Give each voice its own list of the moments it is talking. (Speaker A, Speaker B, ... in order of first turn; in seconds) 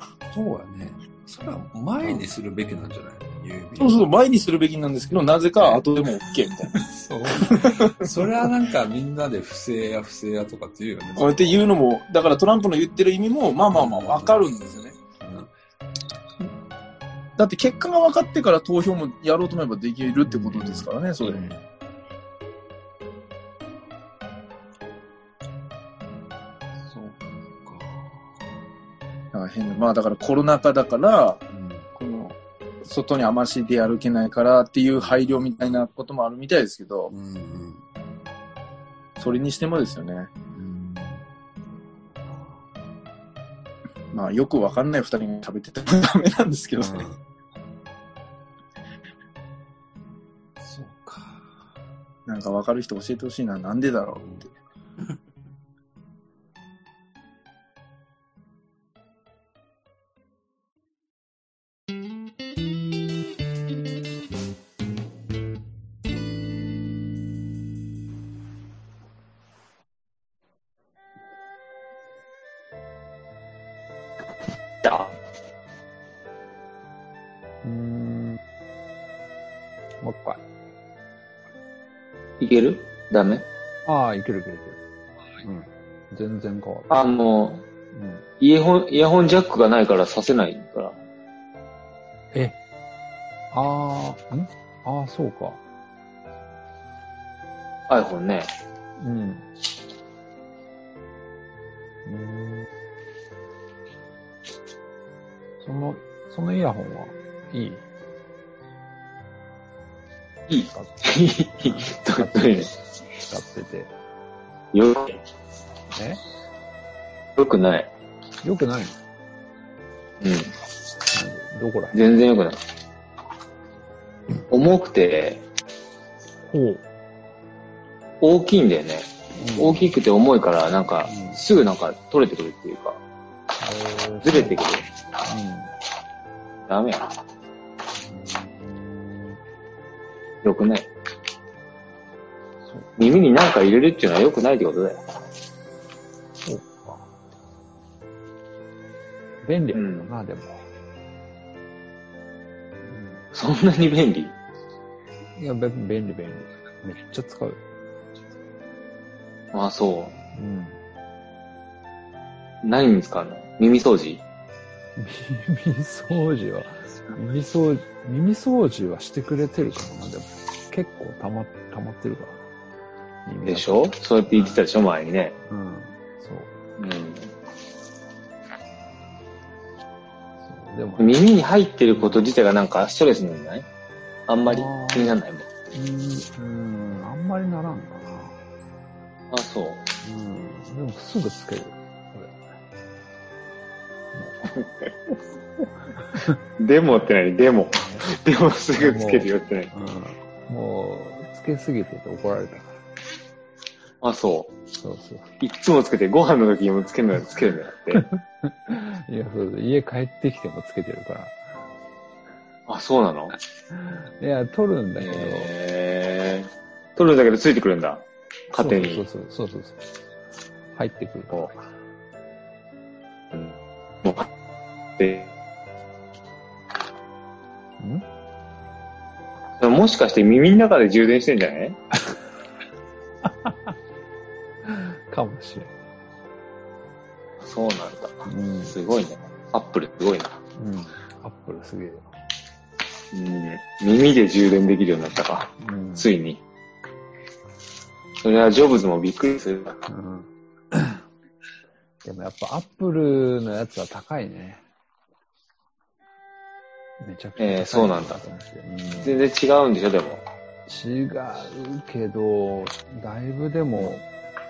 Speaker A: 0.3-4.0, 5.6-5.9, 6.7-11.7, 13.7-14.4, 15.2-15.5, 20.2-21.6, 26.9-28.2, 31.5-31.9, 34.9-35.8, 37.1-37.9, 40.5-41.2, 42.1-42.7, 46.8-47.2, 50.6-51.6, 54.1-55.2
Speaker B: 3.8-6.8, 7.3-8.5, 11.2-15.0, 17.4-21.4, 29.3-31.4, 32.0-37.1, 39.2-40.3, 44.1-47.1, 52.3-54.3
Speaker C: 74.8-75.1, 82.4-83.5, 86.9-87.7, 88.4-91.0, 97.9-98.5, 110.5-112.7, 114.7-115.2, 117.4-117.9, 120.2-120.5, 121.9-122.6, 124.5-125.4, 128.2-133.0, 134.2-134.9, 136.7-137.1, 140.4-140.9, 143.0-145.0, 149.7-150.1, 153.3-154.3, 159.5-160.2, 162.6-164.2, 173.5-175.4, 176.8-177.3, 181.0-183.7, 184.3-185.5, 189.3-189.9, 194.5-195.2, 196.6-199.7, 204.0-204.6, 205.4-208.1, 212.7-213.4, 215.0-219.1, 224.0-224.3, 225.0-225.3, 229.6-231.8, 237.4-240.4, 243.1-246.4, 248.2-249.8, 257.4-258.2, 259.0-260.2
Speaker D: 77.6-78.4, 80.0-80.4, 83.8-84.8, 85.4-87.0, 87.9-88.2, 93.5-95.6, 99.0-99.5, 102.0-102.7, 105.6-107.8, 110.6-112.7, 113.2-113.9, 115.9-116.2, 118.4-119.0, 121.1-122.0, 126.5-126.8, 129.4-129.9, 131.0-131.4, 133.6-134.6, 135.3-135.7, 138.0-139.4, 142.6-142.9, 146.4-147.1, 149.4-150.7, 152.8-153.2, 155.3-157.6, 160.3-160.8, 165.0-172.4, 173.3-174.6, 175.4-176.5, 180.4-181.2, 181.9-182.3, 184.4-185.2, 185.7-188.4, 190.0-192.4, 194.1-194.5, 198.8-202.8, 204.8-205.3, 207.9-211.4, 213.7-215.5, 218.6-219.8, 220.7-221.5, 227.8-228.1, 233.2-233.8, 234.6-235.7, 238.3-238.8, 240.6-242.1, 245.6-246.1, 249.9-251.0, 252.0-254.7, 257.0-259.2, 260.7-264.0